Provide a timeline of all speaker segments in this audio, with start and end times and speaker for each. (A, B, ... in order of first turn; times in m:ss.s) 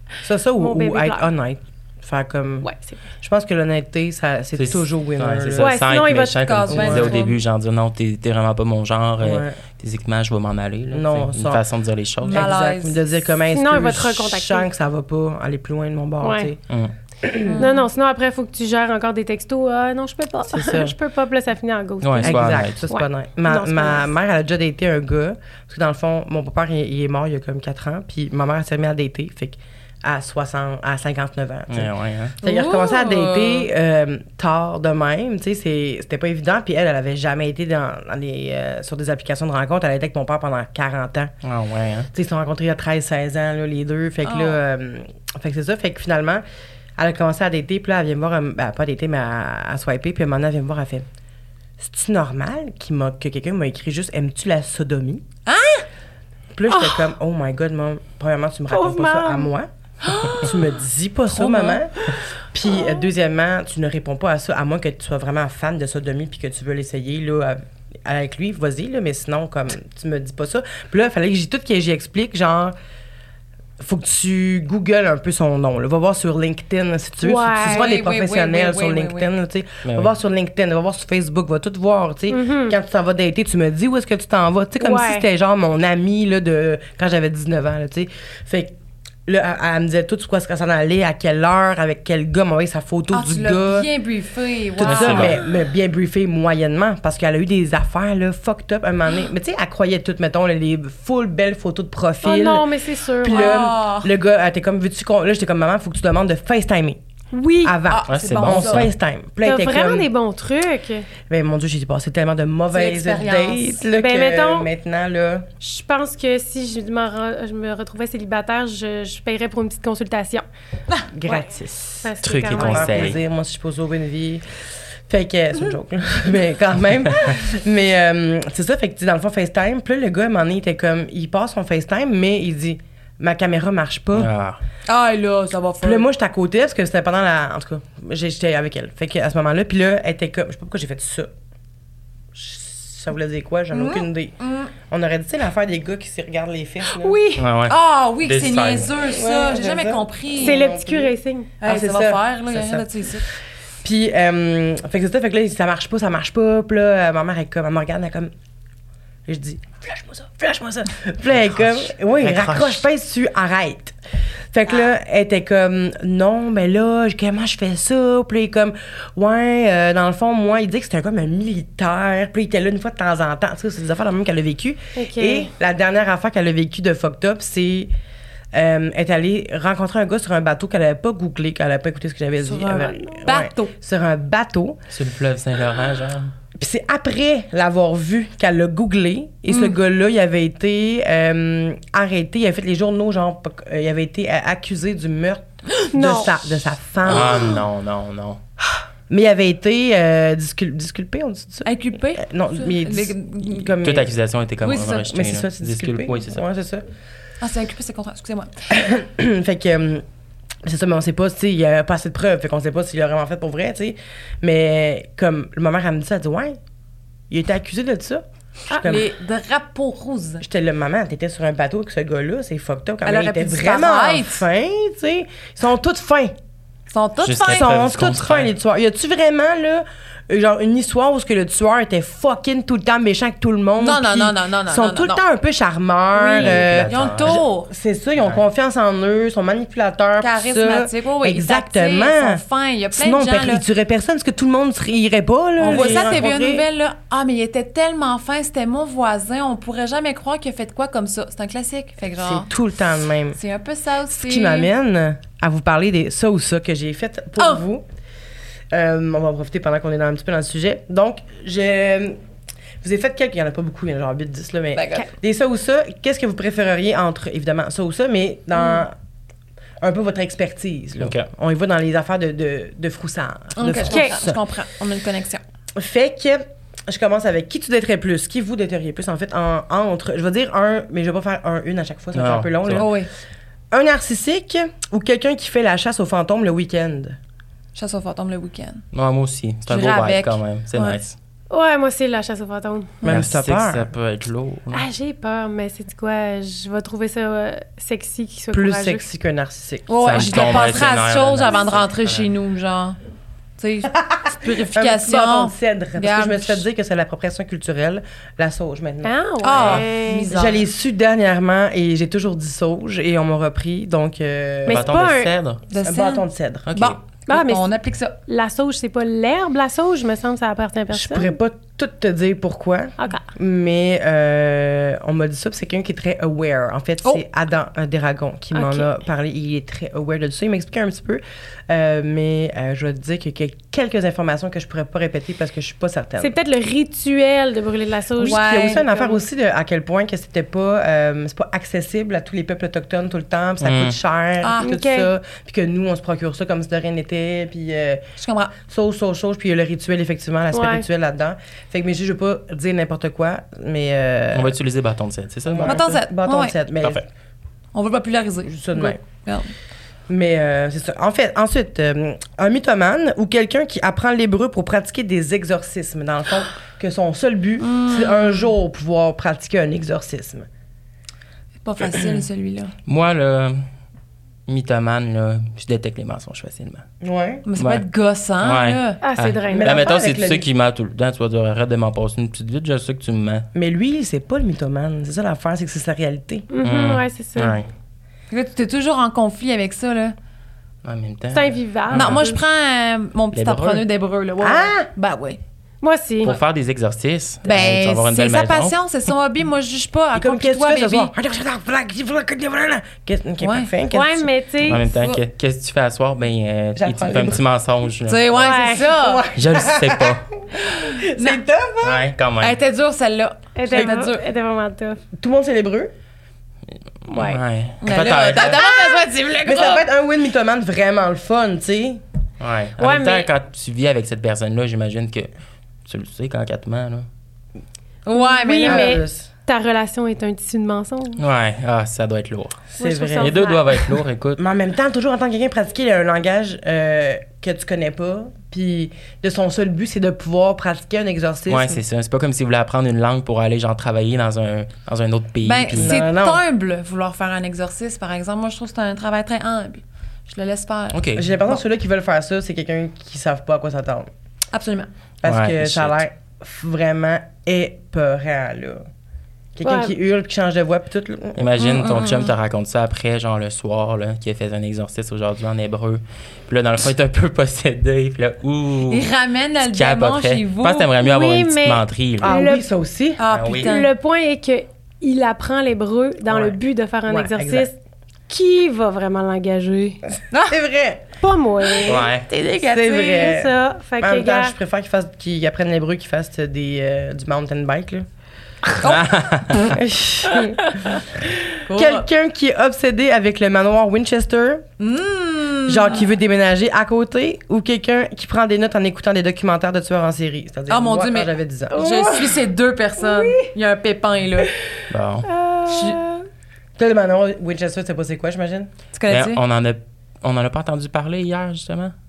0:00.2-0:02.7 A
0:00.6-0:01.3 B
0:02.6-0:03.0 B
0:03.2-0:05.8 A
0:04.6-0:12.5 C
0:05.6-0:06.4 B
0:06.4-0:07.4 D
0:06.7-0:07.2 A
0:09.2-0:09.6 A
0:10.9-0:11.6 A
0:12.2-0:16.6 A
0:12.3-0:13.0 D
0:13.5-0:14.7 B
0:16.2-0:16.5 B
0:17.2-0:17.6 A
0:17.5-0:17.8 D
0:17.6-0:24.0 B
0:20.5-0:21.0 A
0:22.0-0:22.8 C
0:22.2-0:41.3 A
0:31.7-0:32.4 C
0:32.4-0:33.7 D
0:41.4-0:42.1 C
0:42.1-0:46.4 A
0:44.2-0:44.6 D
0:47.0-0:51.0 A
0:51.8-0:55.2 A
0:55.4-0:55.8 D
0:56.5-0:59.7 A
0:56.7-0:57.1 B
0:58.7-0:59.5 B
1:00.0-1:00.5 D
1:00.3-1:01.9 A
1:01.3-1:01.8 D
1:02.5-1:12.7 A
1:13.8-1:28.7 A
1:17.2-1:17.9 B
1:17.6-1:19.3 D
1:19.8-1:20.1 C
1:22.3-1:22.8 B
1:24.8-1:25.2 B
1:29.2-1:33.9 A
1:33.1-1:35.4 D
1:34.8-1:42.7 A
1:34.8-1:35.4 C
1:42.2-1:43.7 B
1:43.2-1:47.0 A
1:43.2-1:44.1 D
1:47.3-1:47.8 B
1:47.6-1:50.1 A
1:47.8-1:48.9 D
1:48.1-1:48.9 C
1:49.4-1:51.1 B
1:51.2-1:55.5 A
1:52.7-1:53.8 D
1:54.0-1:54.7 B
1:55.6-2:00.4 B
2:01.1-2:04.4 A
2:02.0-2:03.1 B
2:02.2-2:03.2 C
2:05.1-2:14.3 A
2:14.2-2:14.6 C
2:14.9-2:16.0 D
2:15.8-2:21.3 A
2:22.3-2:27.2 A
2:23.7-2:24.7 D
2:27.0-2:30.7 D
2:27.4-2:28.9 C
2:29.0-2:33.0 A
2:30.4-2:31.5 B
2:31.6-2:33.2 D
2:33.8-2:38.3 A
2:39.3-2:43.9 A
2:41.3-2:42.8 C
2:44.5-2:57.9 A
2:55.0-2:55.5 B
2:58.5-3:04.8 A
3:02.4-3:03.7 D
3:04.9-3:06.3 C
3:06.5-3:17.6 A
3:09.5-3:09.7 D
3:15.9-3:16.4 B
3:17.0-3:18.4 C
3:19.1-3:24.1 A
3:21.6-3:23.7 D
3:23.8-3:26.4 C
3:24.6-3:25.1 D
3:25.0-3:26.8 A
3:27.4-3:28.7 D
3:28.7-3:30.0 A
3:30.6-3:36.6 A
3:37.3-3:39.1 A
3:38.7-3:40.4 D
3:40.4-3:46.3 A
3:43.0-3:44.4 D
3:46.9-3:47.7 D
3:47.2-3:48.5 C
3:47.5-4:02.4 A
3:53.8-3:55.2 D
3:56.2-3:57.4 C
3:56.3-3:57.7 D
4:00.2-4:03.6 D
4:02.9-4:06.6 A
4:05.6-4:12.5 D
4:05.7-4:06.0 C
4:12.2-4:13.4 A
4:13.3-4:14.7 D
4:14.1-4:17.8 A
4:17.4-4:17.6 D
4:18.7-4:22.2 A
4:22.8-4:28.9 A
4:24.7-4:25.1 D
4:29.8-4:34.4 A
4:31.0-4:31.3 C
4:33.6-4:35.4 D
4:33.9-4:34.2 B
4:35.7-4:43.0 A
4:42.1-4:42.9 C
4:42.8-4:43.1 D
4:43.7-4:47.2 A
4:47.7-4:48.8 D
4:48.9-4:51.2 C
4:49.7-4:51.0 D
4:51.5-4:53.0 B
4:53.0-4:53.9 A
4:53.0-4:54.8 C
4:54.7-4:59.0 B
4:58.5-5:00.7 A
4:59.9-5:03.0 D
5:00.0-5:02.3 C
5:03.6-5:06.6 D
5:04.0-5:15.1 A
5:09.0-5:10.3 B
5:09.4-5:10.6 D
5:09.5-5:09.8 C
5:14.6-5:15.3 B
5:14.7-5:15.6 C
5:15.7-5:18.2 D
5:15.8-5:16.7 A
5:16.7-5:17.0 C
5:17.3-5:17.7 B
5:18.2-5:21.4 B
5:20.9-5:36.3 A
5:23.0-5:23.2 B
5:28.5-5:28.9 B
5:36.2-5:39.2 B
5:38.2-5:48.0 A
5:38.2-5:38.8 D
5:43.6-5:44.0 C
5:44.4-5:44.7 D
5:44.6-5:45.1 B
5:48.2-5:48.5 D
5:48.6-5:54.5 A
5:50.5-5:50.8 B
5:54.3-5:55.8 C
5:55.5-5:57.0 A
5:55.6-5:56.5 D
5:57.7-5:59.5 D
5:58.4-5:59.0 A
6:00.1-6:10.5 A
6:07.6-6:08.4 D
6:11.6-6:12.7 D
6:12.9-6:13.6 C
6:14.5-6:16.8 C
6:17.0-6:17.4 A
6:17.4-6:19.0 D
6:17.6-6:17.8 C
6:18.4-6:23.5 C
6:19.0-6:19.9 B
6:19.5-6:20.5 A
6:23.5-6:26.5 A
6:26.5-6:27.6 B
6:26.6-6:27.7 C
6:28.3-6:30.2 D
6:30.8-6:32.3 C
6:31.3-6:32.4 B
6:31.9-6:35.4 D
6:33.3-6:33.8 C
6:34.4-6:34.9 A
6:35.8-6:36.4 B
6:36.2-6:38.7 C
6:37.4-6:41.1 D
6:40.1-6:44.3 A
6:43.4-6:43.7 D
6:43.9-6:45.2 B
6:44.6-6:48.5 C
6:46.8-6:47.4 A
6:48.1-6:49.2 D
6:48.4-6:48.9 B
6:48.8-6:52.0 A
6:49.3-6:50.2 C
6:50.8-6:51.4 D
6:51.8-6:52.6 C
6:52.4-6:54.2 D
6:53.5-6:55.0 B
6:55.1-6:55.9 A
6:57.1-6:58.6 C
6:57.1-6:57.4 B
6:57.8-6:59.8 D
6:59.4-7:02.0 A
7:02.4-7:05.3 C
7:02.8-7:03.3 B
7:05.8-7:07.0 C
7:08.0-7:09.0 D
7:08.2-7:11.2 B
7:08.6-7:09.3 A
7:11.2-7:14.4 C
7:12.8-7:13.6 B
7:12.8-7:13.5 A
7:14.4-7:21.8 A
7:21.5-7:26.0 C
7:25.4-7:31.5 D
7:25.7-7:26.4 A
7:30.9-7:31.3 C
7:31.2-7:34.1 A
7:34.5-7:34.9 D
7:35.2-7:38.8 A
7:35.2-7:36.0 C
7:39.6-7:41.5 A
7:39.6-7:39.9 B
7:41.4-7:52.4 C
7:41.6-7:42.3 D
7:48.9-7:50.9 D
7:51.0-7:52.6 B
7:52.2-7:53.2 A
7:53.2-7:53.9 D
7:53.3-7:53.8 C
7:53.6-7:57.8 B
7:56.2-7:57.7 A
7:58.3-8:00.0 B
8:00.3-8:00.6 D
8:00.5-8:01.1 A
8:01.2-8:02.1 B
8:01.8-8:02.3 C
8:02.3-8:03.3 D
8:02.6-8:08.0 A
8:03.0-8:04.5 B
8:08.8-8:09.1 D
8:08.8-8:09.7 C
8:09.6-8:11.0 A
8:11.6-8:12.0 D
8:11.7-8:14.6 A
8:14.8-8:16.1 D
8:15.7-8:22.0 A
8:20.7-8:24.5 D
8:21.9-8:22.2 B
8:23.0-8:23.4 B
8:24.9-8:25.3 C
8:25.2-8:26.2 B
8:25.7-8:26.0 D
8:26.8-8:28.7 A
8:28.9-8:29.4 D
8:29.1-8:31.9 C